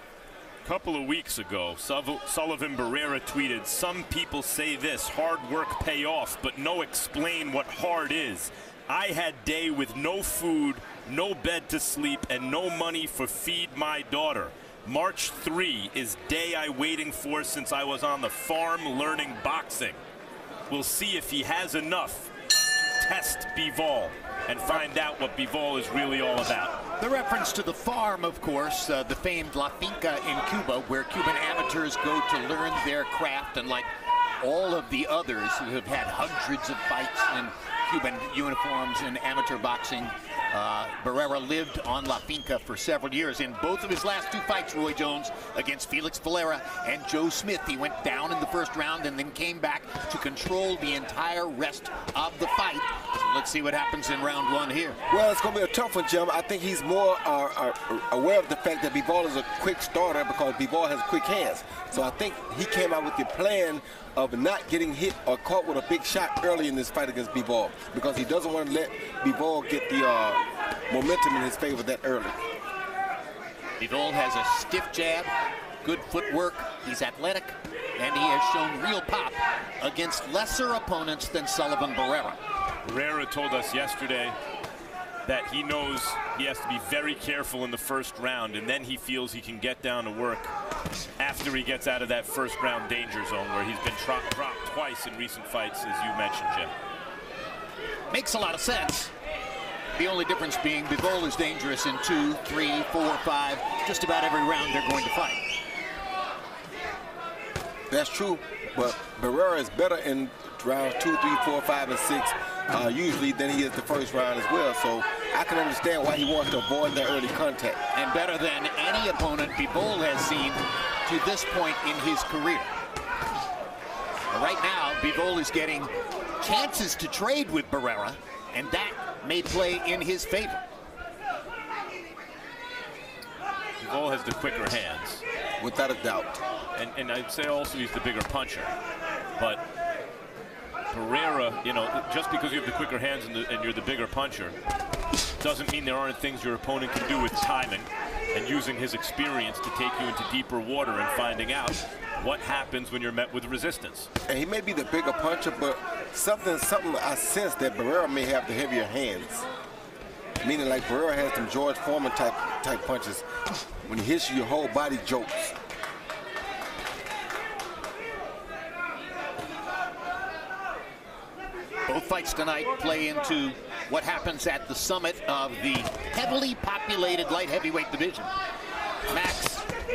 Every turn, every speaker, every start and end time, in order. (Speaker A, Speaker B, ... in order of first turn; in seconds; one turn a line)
Speaker A: 0.6-20.0
Speaker A: 20.7-22.3
Speaker A: 23.0-26.8
Speaker B: 27.0-33.9
Speaker B: 34.4-55.0
Speaker C: 55.1-72.4
Speaker B: 73.8-75.3
Speaker B: 75.8-82.4
Speaker A: 82.8-84.3
Speaker A: 85.2-90.5
Speaker A: 91.2-96.7
Speaker B: 98.1-99.1
Speaker B: 100.0-105.4
Speaker C: 107.9-117.8
Speaker B: 117.9-122.7
Speaker B: 124.3-130.6
Speaker A: 133.8-135.2
Speaker C: 135.6-136.4
Speaker A: 136.7-138.7
Speaker A: 140.9-144.6
Speaker A: 145.4-154.1
Speaker C: 154.3-159.4
Speaker C: 160.4-163.2
Speaker C: 163.8-165.5
Speaker B: 171.9-178.3
Speaker B: 179.1-179.7